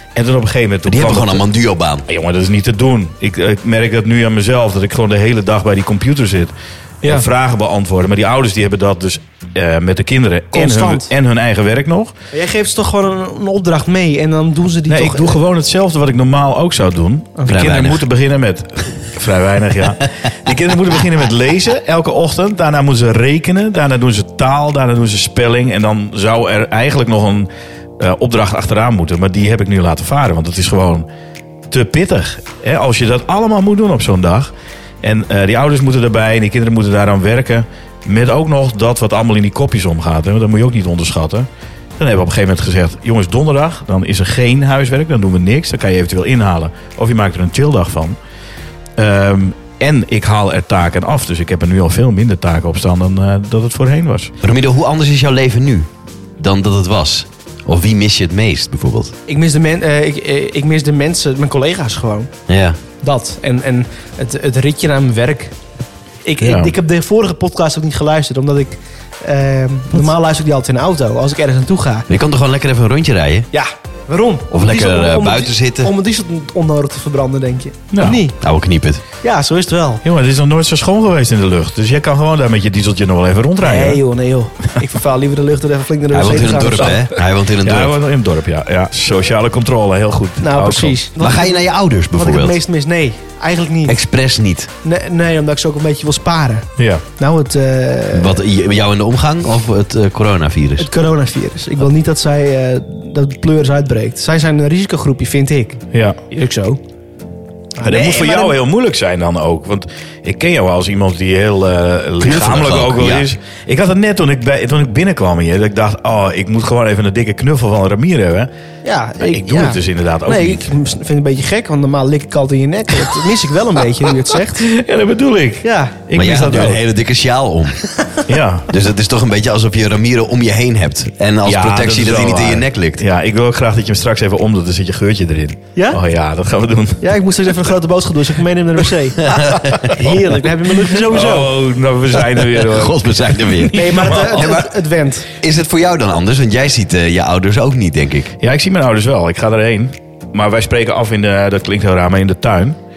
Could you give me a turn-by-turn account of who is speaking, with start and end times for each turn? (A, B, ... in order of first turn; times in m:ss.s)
0:00.2-0:01.4 A
0:00.9-0:02.1 B
0:02.1-0:12.1 A
0:10.5-0:11.1 C
0:12.3-0:15.4 C
0:14.9-0:31.1 A
0:17.5-0:18.0 B
0:31.7-0:34.5 A
0:35.0-0:48.2 A
0:49.0-0:54.3 A
0:54.4-0:59.1 B
0:59.3-1:02.3 C
1:02.5-1:02.8 B
1:03.0-1:05.5 C
1:06.2-1:12.1 C
1:06.4-1:06.7 A
1:12.1-1:13.5 B
1:13.5-1:18.4 C
1:14.5-1:15.9 B
1:17.9-1:18.2 A
1:18.4-1:19.0 B
1:19.2-1:20.0 C
1:20.0-1:24.0 A
1:23.6-1:27.1 C
1:26.1-1:28.0 B
1:27.6-1:31.0 A
1:30.4-1:34.0 C
1:31.2-1:32.6 B
1:33.9-1:34.7 B
1:34.8-1:38.4 C
1:36.8-1:37.0 A
1:38.1-1:40.9 B
1:40.8-1:46.8 C
1:45.9-1:46.2 A
1:47.8-1:48.6 C
1:47.8-1:58.5 A
1:52.2-1:53.3 B
1:58.8-2:04.7 C
1:59.2-2:00.7 A
2:04.6-2:06.8 A
2:05.6-2:06.0 C
2:06.1-2:07.8 B
2:08.3-2:08.7 A
2:08.7-2:13.0 B
2:11.5-2:17.5 A
2:15.8-2:16.0 C
2:17.0-2:21.5 C
2:19.2-2:19.9 B
2:20.9-2:24.5 A
2:22.3-2:24.7 B
2:23.7-2:25.3 C
2:25.3-2:28.4 B
2:28.4-2:32.8 A